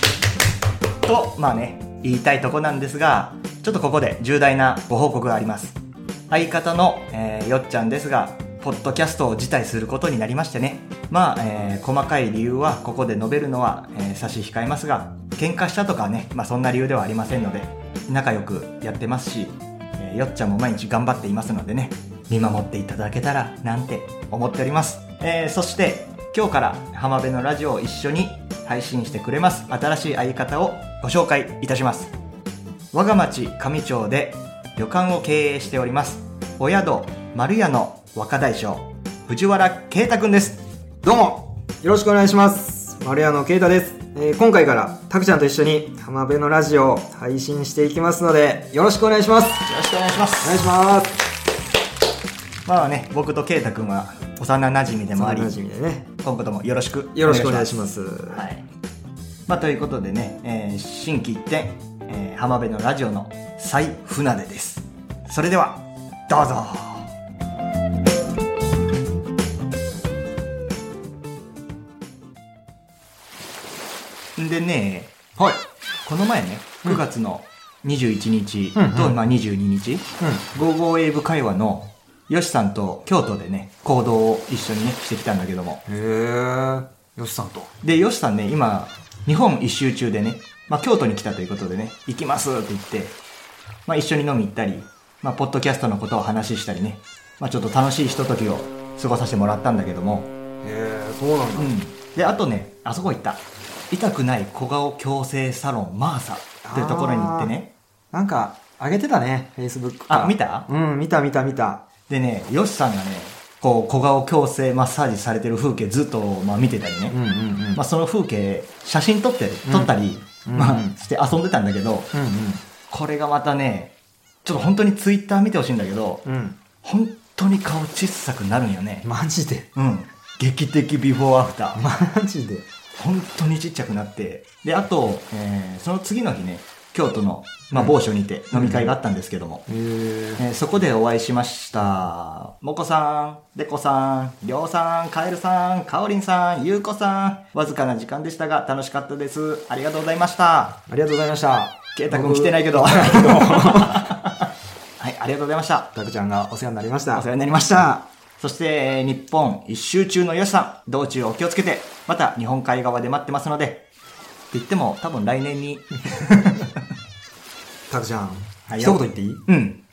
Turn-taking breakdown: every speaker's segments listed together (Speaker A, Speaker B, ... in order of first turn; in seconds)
Speaker A: 1.0-32.1, 32.9-40.6, 49.6-50.6, 52.6-55.5, 56.2-58.6, 59.5-67.1, 74.3-85.8, 87.8-93.2, 93.8-100.3, 101.5-107.7, 110.1-110.7, 112.1-117.2, 117.7-122.1, 122.9-123.9, 124.4-126.2, 126.8-129.1, 129.7-131.8, 132.9-139.6, 140.4-150.8, 151.9-155.9, 157.1-163.8, 164.5-166.8, 168.7-169.8
Speaker B: 41.0-49.7, 50.4-51.1, 55.1-56.1, 57.1-58.4, 78.7-79.2, 85.9-87.7, 100.6-101.7, 106.6-107.5, 108.1-111.8, 117.1-117.8, 119.7-119.9, 120.4-121.0, 122.1-122.6, 126.2-126.6, 129.0-129.7, 131.7-132.7, 138.5-138.9, 139.7-140.4, 150.9-154.1, 155.9-157.2, 167.9-169.4